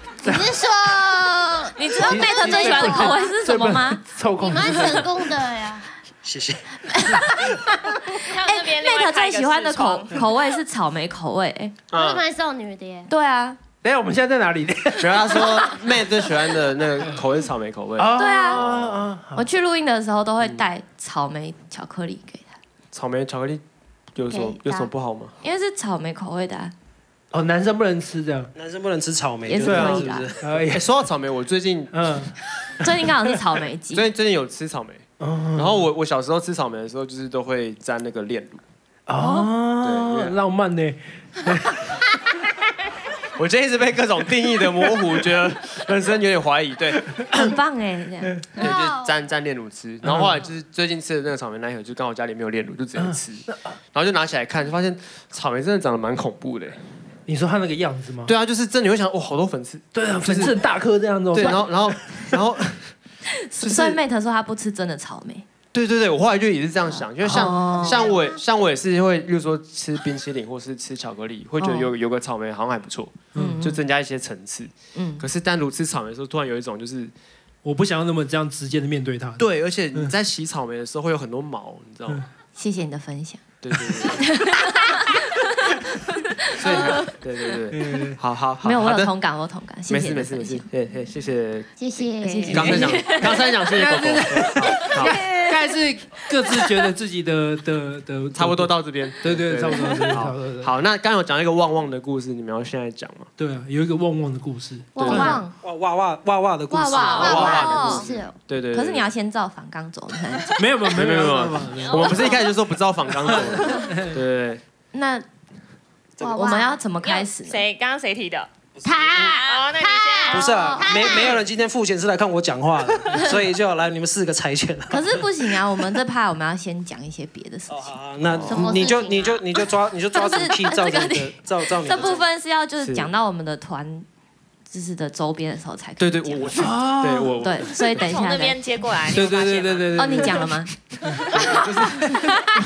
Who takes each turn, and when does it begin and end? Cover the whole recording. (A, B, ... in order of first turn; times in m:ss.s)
0:00.2-0:03.2 A
0:01.8-0:04.1 B
0:02.0-0:05.2 C
0:04.3-0:05.9 A
0:06.2-0:06.7 D
0:06.9-0:11.8 B
0:08.2-0:10.3 E
0:11.9-0:12.2 F
0:11.9-0:13.1 A
0:13.1-0:13.6 B
0:13.8-0:15.9 C
0:15.0-0:19.0 F
0:18.0-0:19.5 C
0:18.2-0:18.6 B
0:19.4-0:22.6 B
0:20.4-0:20.7 F
0:22.9-0:23.6 F
0:24.2-0:25.4 F
0:24.3-0:24.9 A
0:25.4-0:26.7 B
0:27.3-0:28.5 C
0:28.6-0:30.4 D
0:29.5-0:30.3 B
0:29.6-0:32.1 F
0:30.4-0:30.9 C
0:31.9-0:32.3 C
0:32.8-0:34.1 B
0:33.9-0:38.6 F
0:35.2-0:35.8 C
0:39.1-0:41.9 C
0:39.2-0:39.5 B
0:39.8-0:40.4 F
0:43.4-0:47.6 F
0:47.3-0:48.4 B
0:48.6-0:49.2 A
0:48.6-0:56.8 F
0:50.1-0:50.4 C
0:53.0-0:53.6 C
0:57.3-0:58.3 C
0:58.3-1:00.6 F
0:59.9-1:02.4 C
1:01.3-1:02.9 F
1:03.4-1:05.5 B
1:03.6-1:04.0 F
1:05.7-1:17.1 F
1:07.3-1:08.1 B
1:07.3-1:07.6 C
1:07.7-1:08.3 A
1:11.6-1:11.9 B
1:13.3-1:13.6 C
1:13.4-1:13.8 B
1:15.0-1:15.2 B
1:17.6-1:19.4 C
1:19.4-1:22.2 F
1:22.6-1:23.4 B
1:23.6-1:24.3 F
1:24.0-1:27.1 B
1:26.6-1:29.2 F
1:27.7-1:28.2 C
1:28.6-1:30.7 B
1:29.9-1:31.7 F
1:31.8-1:33.1 A
1:32.2-1:33.5 B
1:32.5-1:35.2 F
1:32.6-1:33.1 C
1:33.7-1:40.7 C
1:38.3-1:43.3 F
1:43.4-1:45.4 C
1:45.0-1:45.4 A
1:45.0-1:45.4 F
1:45.0-1:45.5 B
1:45.6-1:48.1 D
1:46.7-1:48.1 B
1:46.8-1:48.4 A
1:47.2-1:49.1 F
1:48.7-1:50.7 B
1:50.5-1:52.2 C
1:50.9-1:54.6 F
1:53.2-1:54.2 C
1:54.9-1:55.3 B
1:56.2-1:56.8 A
1:56.2-1:57.6 B
1:57.0-1:58.5 E
1:58.8-2:01.4 A
1:58.9-1:59.2 D
1:59.2-2:01.2 E
2:00.3-2:05.2 D
2:04.9-2:09.3 B
2:07.7-2:12.2 D
2:08.3-2:08.7 F
2:08.5-2:09.4 A
2:10.1-2:14.1 B
2:12.8-2:13.1 F
2:14.7-2:16.8 B
2:16.0-2:18.1 F
2:16.6-2:17.4 C
2:17.4-2:18.6 B
2:17.8-2:20.4 E
2:19.1-2:21.4 C
2:20.0-2:20.7 B
2:21.3-2:22.4 F
2:21.4-2:21.6 B
2:22.1-2:22.3 C